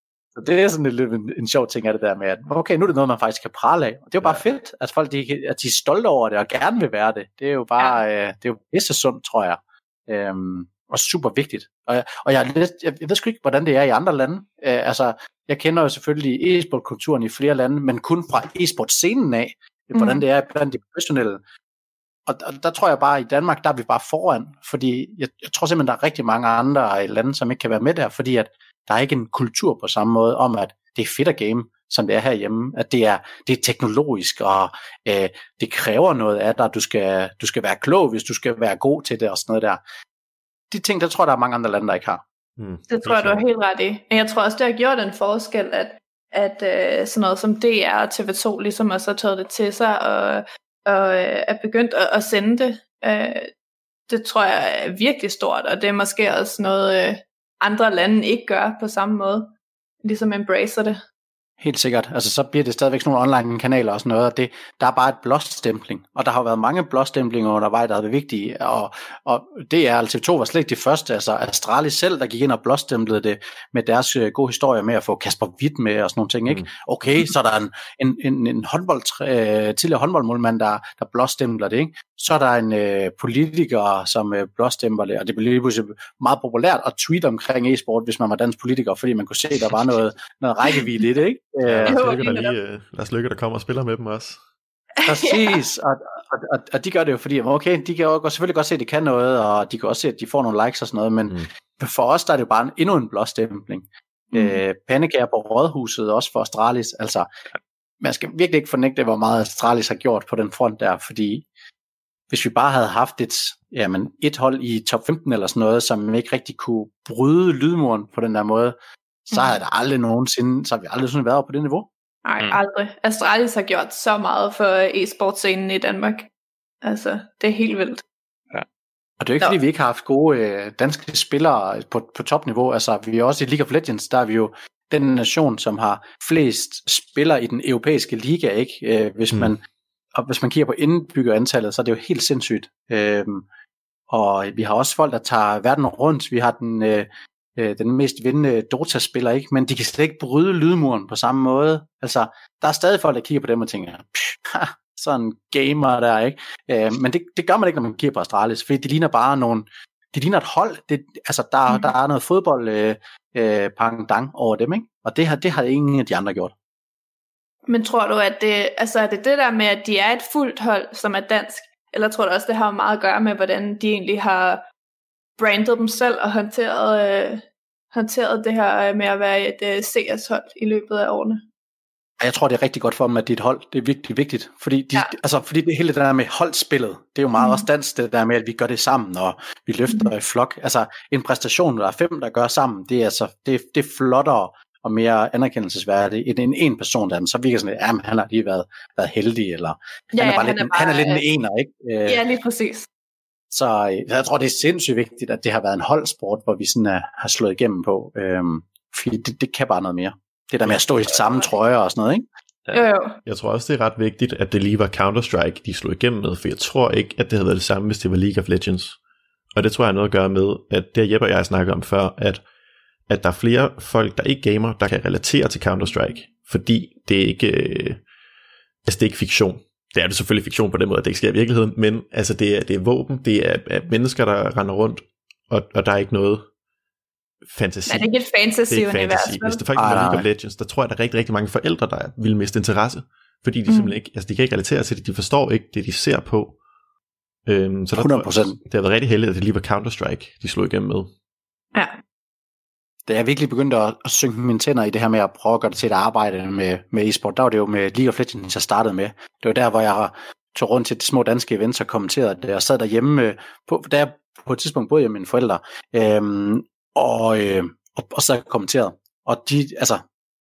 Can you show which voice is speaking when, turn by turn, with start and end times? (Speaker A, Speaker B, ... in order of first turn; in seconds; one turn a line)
Speaker A: 0.3-21.4
Speaker B: 19.9-20.2
Speaker A: 22.3-39.8
Speaker A: 40.7-42.2
Speaker C: 42.6-43.5
Speaker B: 42.9-53.5
Speaker B: 54.1-59.5
Speaker B: 60.0-61.0
Speaker A: 61.6-92.1
Speaker C: 91.6-94.4
Speaker B: 91.9-92.5
Speaker B: 95.0-95.6
Speaker A: 95.0-107.3
Speaker B: 104.3-104.6
Speaker A: 108.0-111.5
Speaker A: 112.3-118.8
Speaker A: 119.3-121.9
Speaker B: 119.3-119.6
Speaker B: 122.2-126.3
Speaker B: 126.8-128.0
Speaker A: 129.2-139.6
Speaker A: 140.1-143.4
Speaker A: 144.1-166.5
Speaker B: 161.7-161.9
Speaker B: 167.7-174.6
Speaker B: 175.4-181.4
Speaker A: 182.2-202.2
Speaker B: 187.4-187.7
Speaker B: 200.1-201.2
Speaker B: 202.1-202.9
Speaker A: 203.5-212.2
Speaker B: 211.1-211.5
Speaker B: 212.7-213.2
Speaker C: 213.2-219.0
Speaker C: 219.5-222.4
Speaker C: 223.1-228.0
Speaker C: 228.8-236.5
Speaker C: 237.4-238.1
Speaker B: 237.9-239.6
Speaker C: 238.7-246.6
Speaker A: 239.8-240.2
Speaker B: 243.7-244.0
Speaker C: 247.5-251.1
Speaker A: 247.9-248.6
Speaker A: 253.1-270.0